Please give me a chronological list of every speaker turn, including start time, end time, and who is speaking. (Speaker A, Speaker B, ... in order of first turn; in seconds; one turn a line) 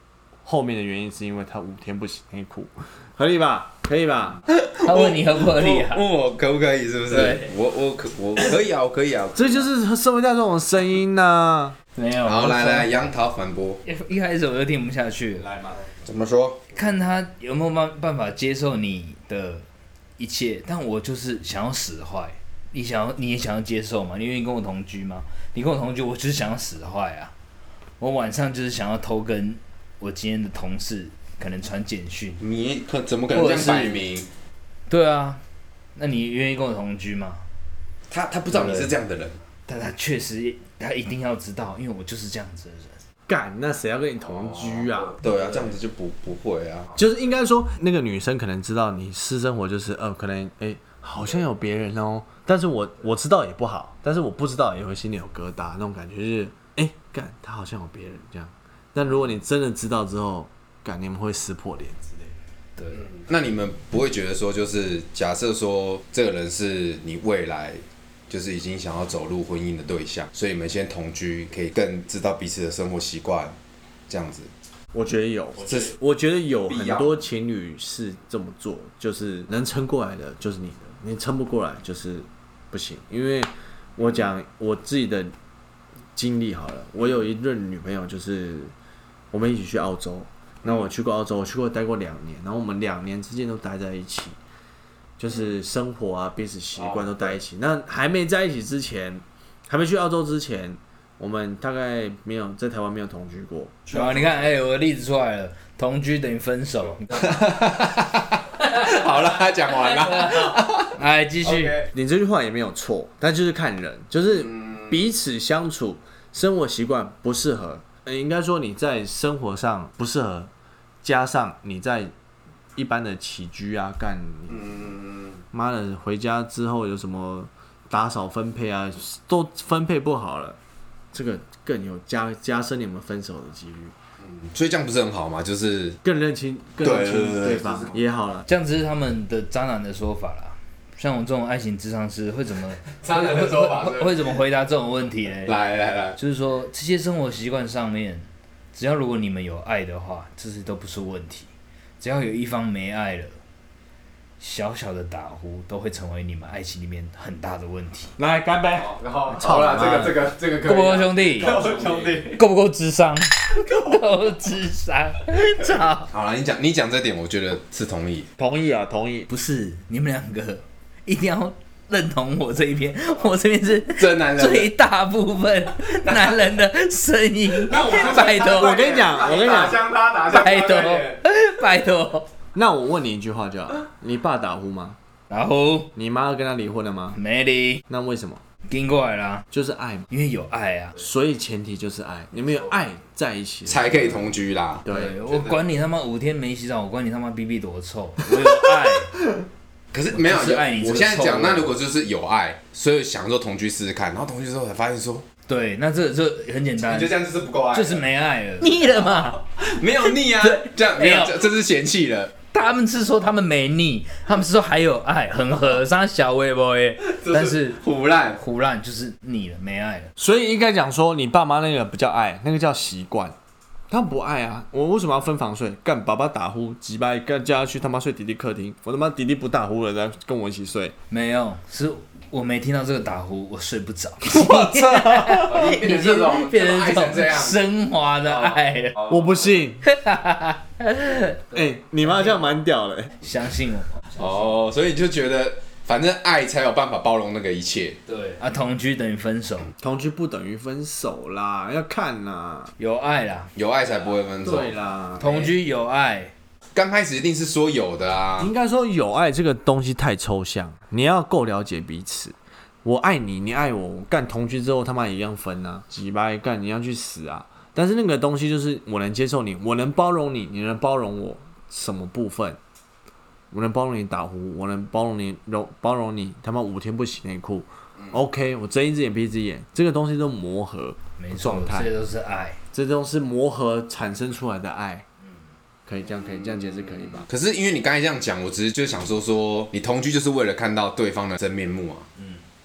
Speaker A: 0.5-4.4
Speaker B: 4.5-9.6
Speaker C: 4.8-6.0
Speaker C: 7.1-7.5
Speaker A: 9.3-11.8
Speaker C: 12.0-12.9
Speaker B: 12.2-13.8
Speaker C: 13.8-15.5
Speaker A: 15.4-15.8
Speaker B: 16.0-16.6
Speaker C: 16.7-19.6
Speaker C: 20.2-27.3
Speaker C: 28.0-32.4
Speaker B: 32.4-34.3
Speaker C: 33.3-34.0
Speaker C: 34.9-35.4
Speaker C: 36.0-37.4
Speaker B: 38.1-39.4
Speaker C: 38.5-38.9
Speaker C: 39.7-43.0
Speaker A: 43.3-45.2
Speaker B: 44.6-47.0
Speaker A: 47.0-62.4
Speaker C: 62.8-63.1
Speaker B: 63.1-73.5
Speaker B: 74.1-74.5
Speaker A: 74.9-85.3
Speaker B: 75.7-75.9
Speaker B: 76.7-77.2
Speaker A: 86.2-88.7
Speaker A: 89.3-94.4
Speaker A: 95.2-104.1
Speaker B: 96.8-97.3
Speaker C: 103.9-107.4
Speaker B: 107.2-111.9
Speaker C: 110.4-111.8
Speaker A: 111.9-120.5
Speaker A: 121.0-122.1
Speaker A: 122.8-124.9
Speaker B: 124.7-125.2
Speaker A: 125.5-130.6
Speaker A: 131.1-133.9
Speaker B: 134.2-136.0
Speaker A: 136.0-138.5
Speaker B: 136.8-138.0
Speaker C: 138.5-145.6
Speaker B: 143.0-144.2
Speaker B: 145.5-146.2
Speaker C: 146.2-151.5
Speaker C: 152.0-153.3
Speaker C: 154.4-158.2
Speaker A: 158.2-160.2
Speaker B: 158.8-162.4
Speaker C: 159.6-160.1
Speaker C: 160.6-161.6
Speaker A: 161.5-162.2
Speaker C: 162.3-166.1
Speaker B: 166.1-168.3
Speaker A: 168.4-169.3
Speaker C: 169.3-178.8
Speaker B: 174.0-174.7
Speaker B: 177.6-181.2
Speaker A: 178.5-179.9
Speaker C: 180.3-182.3
Speaker A: 182.6-185.0
Speaker C: 185.3-185.9
Speaker A: 186.0-187.2
Speaker C: 187.1-187.8
Speaker A: 187.9-188.4
Speaker C: 188.7-189.5
Speaker A: 189.5-190.1
Speaker C: 190.1-191.0
Speaker A: 191.0-194.3
Speaker B: 193.7-195.6
Speaker A: 194.8-195.2
Speaker C: 194.9-199.1
Speaker B: 199.9-205.2
Speaker C: 200.1-201.7
Speaker C: 205.5-207.1
Speaker B: 206.8-208.1
Speaker C: 207.7-209.4
Speaker B: 208.6-212.3
Speaker C: 210.4-211.4
Speaker C: 212.5-217.8
Speaker B: 217.1-218.4
Speaker C: 218.3-220.1
Speaker A: 220.2-223.3
Speaker A: 223.9-230.9
Speaker C: 231.1-239.0
Speaker A: 234.2-235.6
Speaker B: 235.4-237.6
Speaker A: 239.1-239.8
Speaker C: 239.8-242.5
Speaker A: 241.5-243.1
Speaker C: 243.2-244.4
Speaker B: 244.2-248.0
Speaker C: 248.1-249.7
Speaker A: 249.8-252.7
Speaker C: 252.8-253.5
Speaker B: 253.6-255.5
Speaker A: 254.4-255.3
Speaker C: 255.2-256.3
Speaker B: 256.8-258.5
Speaker A: 258.4-272.6
Speaker A: 273.5-281.9
Speaker C: 281.2-282.6
Speaker A: 282.7-285.1
Speaker A: 285.9-287.3
Speaker B: 287.3-292.1